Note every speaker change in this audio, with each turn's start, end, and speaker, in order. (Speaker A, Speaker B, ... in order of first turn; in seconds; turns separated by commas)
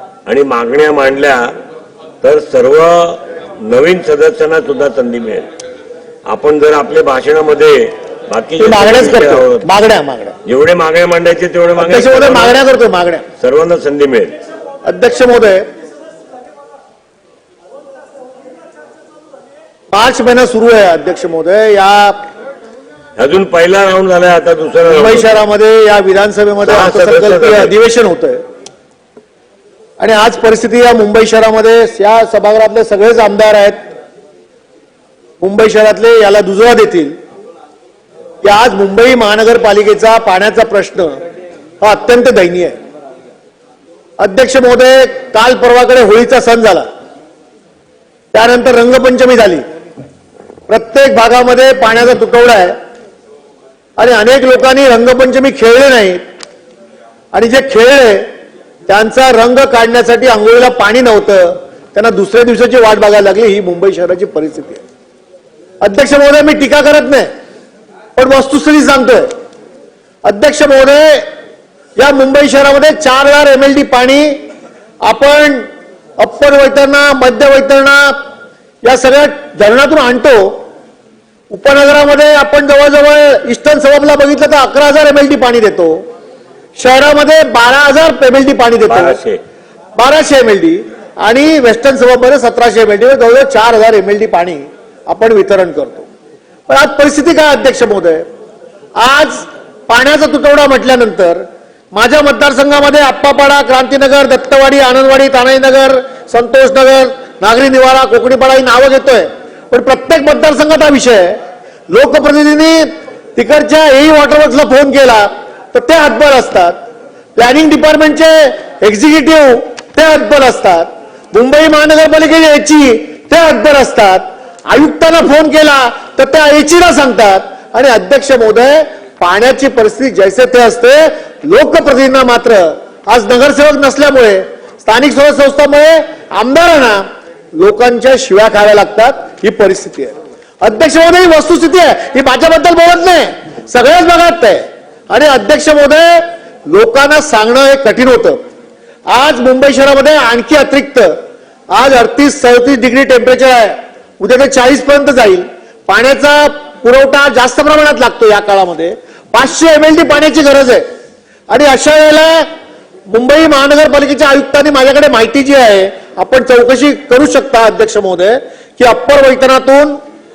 Speaker A: 0.2-1.5, Speaker A: 2.2-5.5, Speaker A: 6.3-9.7, Speaker B: 8.6-10.3, Speaker A: 10.4-12.6, Speaker B: 11.8-13.2, Speaker A: 13.4-14.3, Speaker B: 14.8-15.6, Speaker B: 19.9-22.2, Speaker A: 23.2-25.4, Speaker B: 24.8-28.4, Speaker A: 26.6-27.7, Speaker B: 30.0-33.8, Speaker B: 35.4-37.1, Speaker B: 38.4-41.2, Speaker B: 41.8-42.8, Speaker B: 44.2-46.9, Speaker B: 48.3-49.6, Speaker B: 50.7-52.8, Speaker B: 54.0-56.2, Speaker B: 57.3-58.3, Speaker B: 58.9-64.8, Speaker B: 65.8-67.3, Speaker B: 68.2-69.3, Speaker B: 70.2-71.2, Speaker B: 72.0-74.4, Speaker B: 75.0-75.7, Speaker B: 76.2-78.2, Speaker B: 78.8-80.6, Speaker B: 81.5-86.0, Speaker B: 86.8-89.2, Speaker A: 88.9-89.4, Speaker B: 90.0-96.1, Speaker B: 96.7-98.2, Speaker B: 99.0-111.3, Speaker B: 111.9-112.8, Speaker B: 113.3-116.7, Speaker B: 117.3-137.0, Speaker B: 137.6-148.4, Speaker B: 149.1-151.2, Speaker B: 151.7-160.8, Speaker B: 161.5-162.5, Speaker B: 163.1-169.9